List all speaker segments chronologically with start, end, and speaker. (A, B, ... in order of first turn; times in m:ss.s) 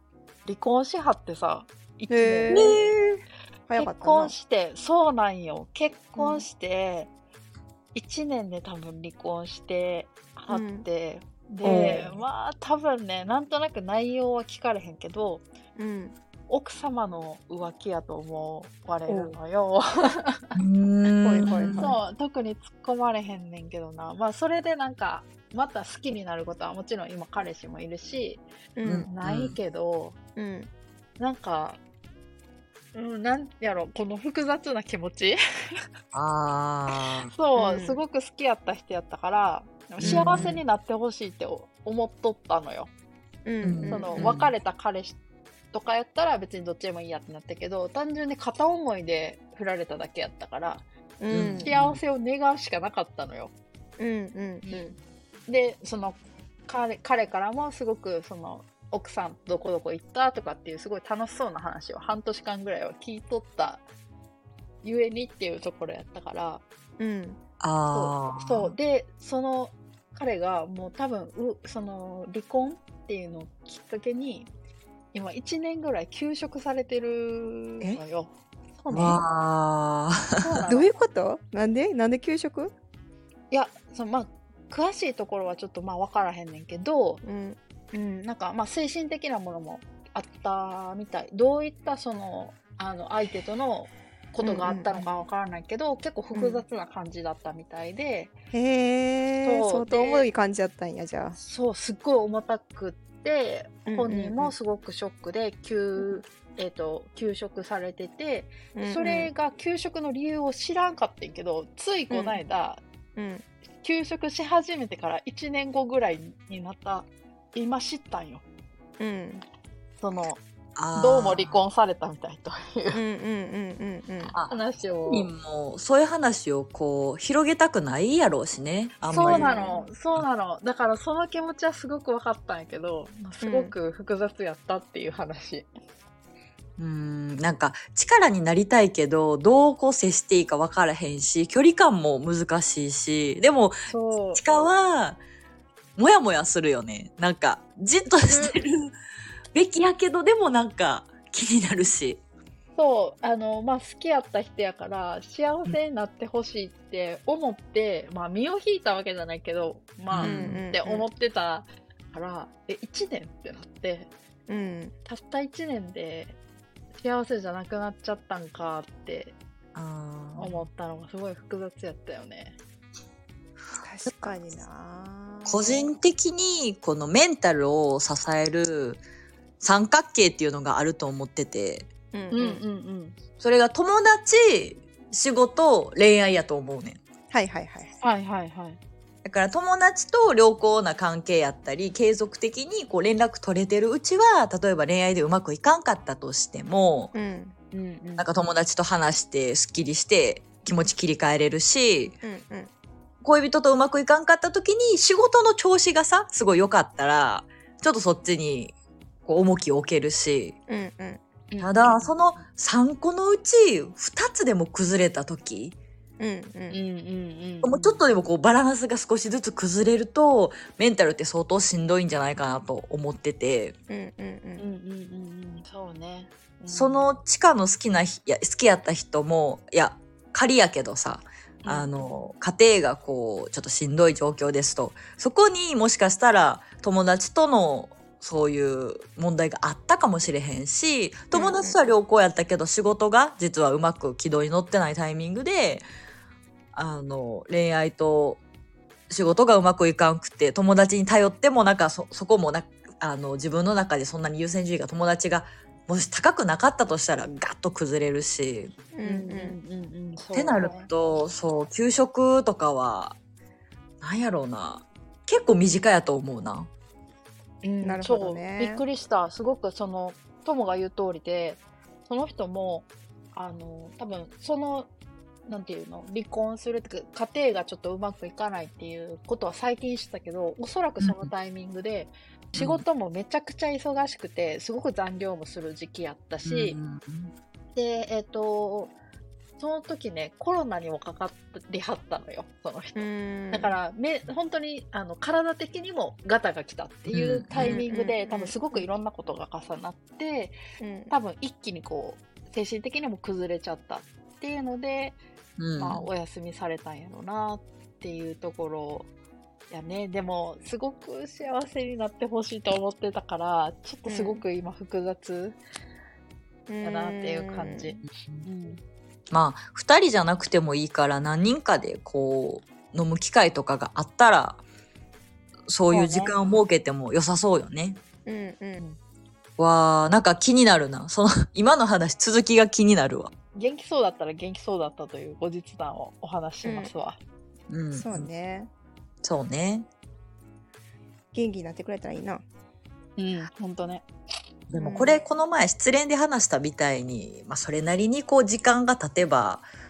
0:00.5-0:02.8 A
0:02.1-0:04.3 B
0:02.5-0:03.0 C
0:03.8-0:07.1 A
0:06.2-0:06.4 B
0:07.9-0:15.4 A
0:10.5-0:10.9 B
0:11.6-0:12.0 C
0:15.8-0:16.2 B
0:16.5-0:20.5 A
0:19.1-0:19.4 B
0:20.6-0:22.0 C
0:21.2-0:21.9 B
0:21.4-0:28.4 A
0:28.8-0:29.1 B
0:28.8-0:29.6 C
0:29.1-0:30.2 A
0:30.4-0:30.7 B
0:31.2-0:31.8 A
0:32.9-0:35.4 A
0:36.1-0:37.3 C
0:37.3-0:42.9 A
0:37.6-0:38.0 B
0:40.0-0:40.6 C
0:43.4-0:44.3 B
0:43.6-0:44.5 C
0:43.9-0:45.2 A
0:45.7-0:50.8 A
0:51.2-0:51.7 B
0:51.3-0:52.0 C
0:51.6-0:53.5 A
0:54.0-0:55.0 B
0:55.5-1:03.8 A
1:04.8-1:06.6 A
1:07.0-1:07.4 B
1:07.6-1:08.8 C
1:07.9-1:14.5 A
1:15.1-1:19.2 A
1:18.9-1:20.6 C
1:20.4-1:20.9 A
1:20.7-1:22.7 B
1:23.5-1:27.2 A
1:27.2-1:27.6 B
1:27.9-1:38.3 A
1:34.4-1:35.0 B
1:36.3-1:36.6 B
1:38.5-1:41.4 B
1:39.4-1:40.3 A
1:41.4-1:52.8 A
1:43.9-1:44.5 B
1:48.8-1:49.3 B
1:52.1-1:52.4 B
1:53.2-1:53.4 B
1:53.8-1:58.4 A
1:59.0-1:59.4 B
2:00.0-2:00.4 A
2:00.8-2:01.6 C
2:00.9-2:03.0 A
2:02.9-2:04.3 B
2:04.3-2:09.6 C
2:04.5-2:05.3 A
2:09.1-2:15.7 A
2:09.1-2:09.8 B
2:13.4-2:13.7 B
2:16.8-2:25.2 C
2:23.9-2:24.4 A
2:26.0-2:28.9 C
2:28.3-2:28.6 A
2:29.5-2:32.2 C
2:32.8-2:44.1 A
2:40.1-2:40.6 C
2:40.2-2:41.1 B
2:44.5-2:44.9 B
2:45.1-2:46.4 A
2:47.0-2:49.4 A
2:49.8-2:50.7 C
2:50.4-2:52.6 A
2:53.8-2:55.9 B
2:54.0-2:54.3 C
2:55.5-2:59.0 C
2:59.6-3:01.9 C
3:02.1-3:02.6 B
3:02.3-3:03.2 A
3:03.4-3:07.0 C
3:07.3-3:07.9 B
3:08.0-3:08.8 A
3:09.2-3:17.1 C
3:17.1-3:17.5 B
3:17.7-3:18.3 A
3:18.2-3:22.2 C
3:22.2-3:22.7 B
3:23.2-3:28.7 C
3:29.3-3:30.6 C
3:30.7-3:31.2 B
3:31.5-3:32.2 A
3:31.6-3:35.8 C
3:36.2-3:36.8 B
3:36.7-3:38.0 A
3:37.6-3:43.8 C
3:43.9-3:44.6 B
3:44.6-3:47.2 A
3:46.7-4:05.8 C
3:51.6-3:51.9 A
4:01.4-4:01.8 B
4:06.7-4:08.4 C
4:09.1-4:18.7 C
4:18.9-4:19.6 B
4:19.0-4:20.9 A
4:20.3-4:23.2 C
4:24.0-4:26.7 C
4:27.6-4:34.9 A
4:27.8-4:28.8 B
4:35.5-4:46.8 A
4:41.0-4:41.3 C
4:42.6-4:42.8 C
4:46.4-4:47.3 C
4:47.8-4:49.0 A
4:49.6-5:00.6 A
4:53.0-4:53.8 B
4:57.1-4:57.8 C
4:57.6-4:58.9 B
5:00.8-5:01.1 B
5:01.1-5:05.2 A
5:05.6-5:06.0 C
5:05.8-5:09.1 A
5:09.7-5:15.6 A
5:14.1-5:14.4 B
5:16.7-5:17.9 B
5:16.8-5:18.8 A
5:19.3-5:24.6 C
5:25.7-5:28.0 C
5:25.9-5:26.4 A
5:28.3-5:28.8 B
5:29.6-5:33.3 C
5:33.6-5:37.2 A
5:36.6-5:36.9 B
5:37.7-5:38.3 C
5:37.9-5:38.7 B
5:39.2-5:39.9 C
5:41.3-5:42.4 B
5:43.2-5:44.1 A
5:44.7-5:49.7 C
5:44.7-5:45.2 B